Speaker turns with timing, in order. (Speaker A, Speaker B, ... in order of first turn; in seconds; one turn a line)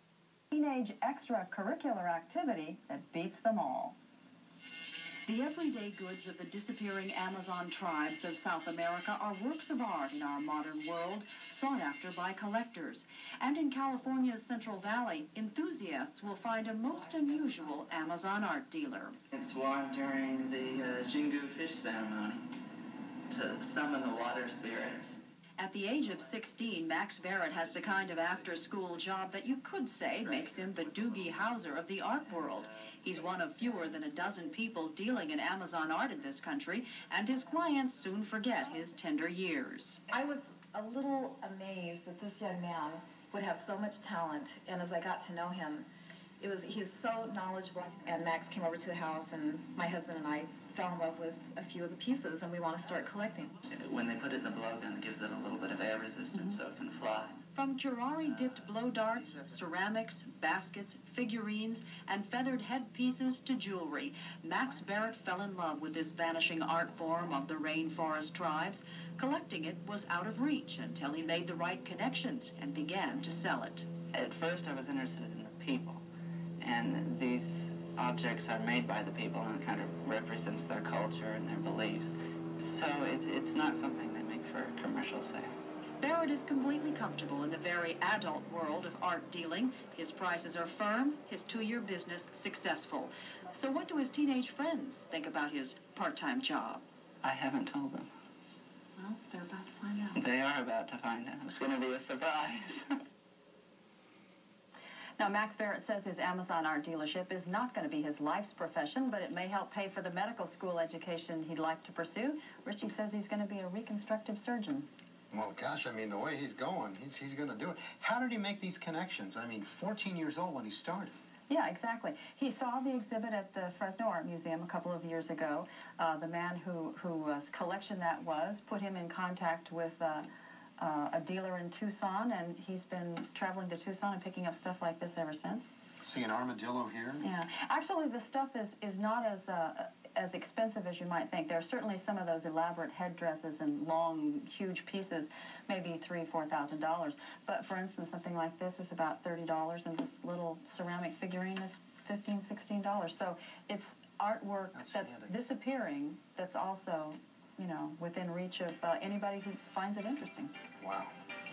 Speaker A: 0.5-4.0
Speaker A: 5.3-19.1
Speaker B: 19.3-22.5
Speaker B: 23.3-25.2
Speaker A: 25.6-40.1
Speaker C: 40.1-45.9
Speaker C: 46.4-53.5
Speaker B: 53.7-57.4
Speaker A: 57.5-73.9
Speaker B: 74.1-76.0
Speaker B: 76.6-85.5
Speaker A: 86.0-96.8
Speaker B: 97.2-98.1
Speaker A: 99.0-100.2
Speaker B: 100.1-102.9
Speaker A: 105.2-114.9
Speaker D: 115.3-121.2
Speaker A: 121.5-130.3
Speaker A: 130.8-135.7
Speaker D: 136.0-137.2
Speaker A: 137.2-160.5
Speaker D: 154.8-155.3
Speaker D: 160.8-161.1